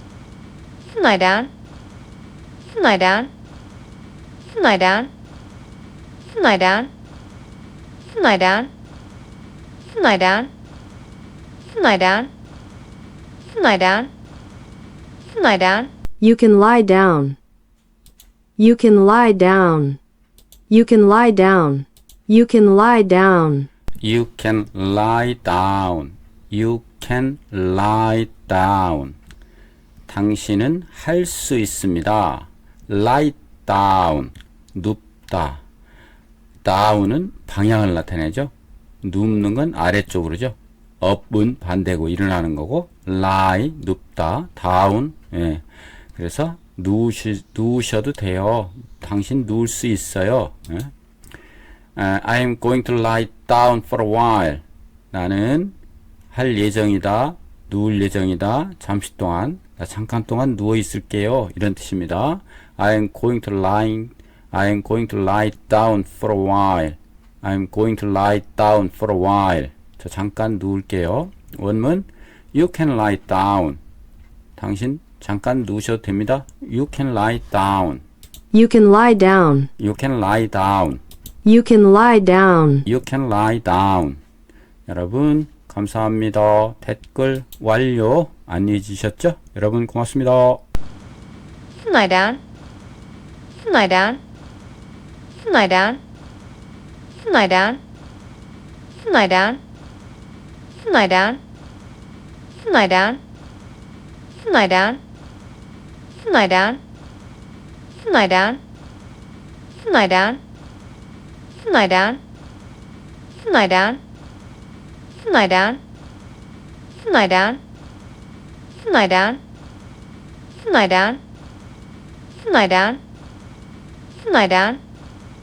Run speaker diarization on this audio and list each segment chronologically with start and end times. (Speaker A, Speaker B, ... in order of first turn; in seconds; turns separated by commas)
Speaker A: 0.9-1.5, Speaker A: 2.7-3.3, Speaker A: 4.5-5.1, Speaker A: 6.3-6.9, Speaker A: 8.1-8.7, Speaker A: 9.9-10.5, Speaker A: 11.7-12.3, Speaker A: 13.5-14.1, Speaker A: 15.3-15.9, Speaker B: 16.2-17.4, Speaker B: 18.6-20.0, Speaker B: 20.7-23.7, Speaker C: 24.0-29.1, Speaker C: 30.1-35.6, Speaker C: 36.6-38.5, Speaker C: 39.0-45.6, Speaker C: 46.1-50.9, Speaker C: 52.0-55.7, Speaker C: 56.3-73.8, Speaker C: 74.6-78.0, Speaker B: 78.5-79.7, Speaker C: 79.8-81.0, Speaker B: 81.4-82.8, Speaker C: 82.8-84.2, Speaker C: 84.9-90.6, Speaker A: 91.8-92.4, Speaker A: 93.6-94.2, Speaker A: 95.4-96.0, Speaker A: 97.2-97.8, Speaker A: 99.0-99.6, Speaker A: 100.8-101.4, Speaker A: 102.6-103.2, Speaker A: 104.4-105.0, Speaker A: 106.2-106.8, Speaker A: 108.0-108.6, Speaker A: 109.8-110.4, Speaker A: 111.6-112.2, Speaker A: 113.4-114.0, Speaker A: 115.2-115.8, Speaker A: 117.0-117.6, Speaker A: 118.8-119.4, Speaker A: 120.6-121.2, Speaker A: 122.4-123.0, Speaker A: 124.2-124.8